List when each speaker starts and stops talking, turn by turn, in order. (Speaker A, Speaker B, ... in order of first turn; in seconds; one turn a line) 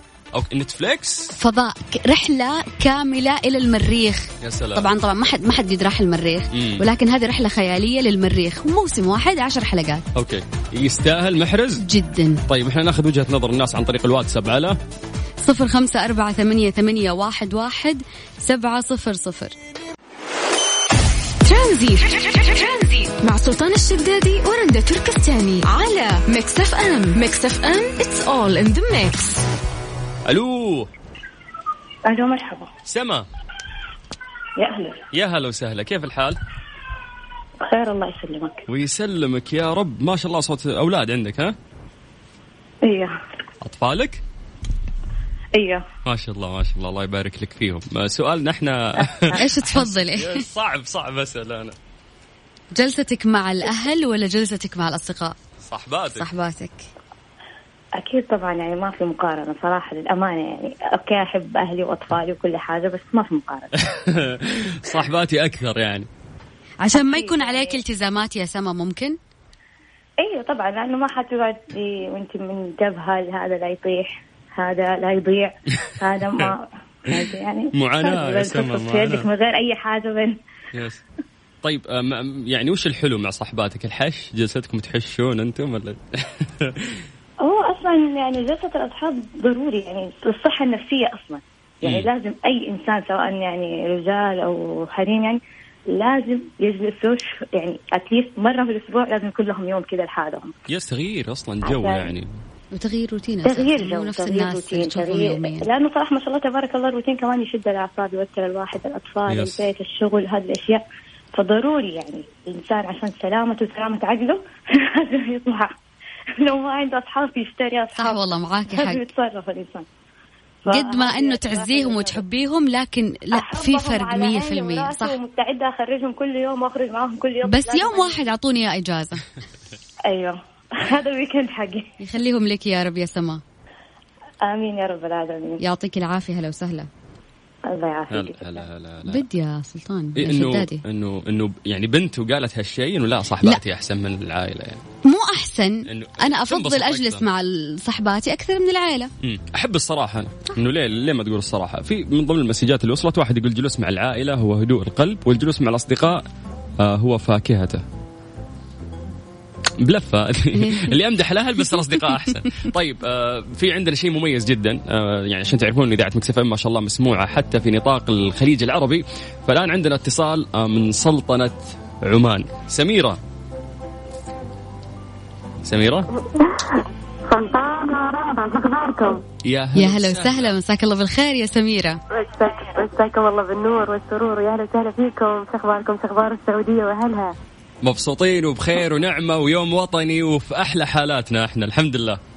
Speaker A: 0.3-1.3
Speaker B: 1.4-10.0
Speaker A: 4.4-4.9
Speaker A: 6.5-6.8
Speaker A: 10.1-11.8
Speaker B: 11.8-12.4
Speaker A: 12.5-14.8
Speaker B: 15.4-19.5
Speaker C: 21.4-29.4
Speaker A: 30.2-30.9
Speaker D: 32.0-32.7
Speaker A: 32.9-33.3
Speaker D: 34.6-35.0
Speaker A: 35.1-36.4
Speaker D: 37.6-38.6
Speaker A: 38.7-41.5
Speaker D: 42.8-43.1
Speaker A: 43.6-44.2
Speaker D: 45.5-45.8
Speaker A: 46.0-51.8
Speaker B: 49.3-50.4
Speaker B: 52.7-55.3
Speaker A: 55.6-56.3
Speaker B: 56.1-56.9
Speaker D: 58.0-63.7
Speaker A: 63.8-66.1
Speaker B: 66.8-69.2
Speaker D: 66.9-67.8
Speaker D: 70.2-80.4
Speaker A: 75.8-76.5
Speaker A: 77.1-79.3
Speaker A: 80.7-81.0
Speaker A: 81.6-87.1
Speaker D: 87.4-95.4
Speaker A: 91.8-92.1
Speaker D: 95.9-100.5
Speaker A: 100.7-102.3
Speaker D: 101.7-102.1
Speaker B: 102.7-105.7
Speaker D: 103.4-110.8
Speaker A: 109.3-109.6
Speaker D: 111.3-115.7
Speaker D: 116.4-119.8
Speaker B: 117.9-119.0
Speaker D: 120.7-122.2
Speaker B: 120.7-125.2
Speaker D: 123.3-128.2
Speaker B: 127.4-129.3
Speaker D: 130.1-131.9
Speaker B: 132.0-133.4
Speaker D: 134.4-135.6
Speaker B: 135.6-136.9
Speaker D: 137.7-138.6
Speaker A: 138.1-139.2
Speaker B: 139.0-140.8
Speaker A: 140.2-144.8
Speaker B: 145.0-149.1
Speaker A: 145.8-147.2
Speaker A: 149.2-156.2
Speaker A: 156.8-157.8
Speaker A: 159.8-173.2
Speaker B: 160.5-160.9
Speaker A: 175.6-176.1
Speaker E: 176.4-179.2
Speaker A: 179.4-180.6
Speaker B: 179.8-182.0
Speaker E: 182.1-187.3
Speaker A: 187.8-192.2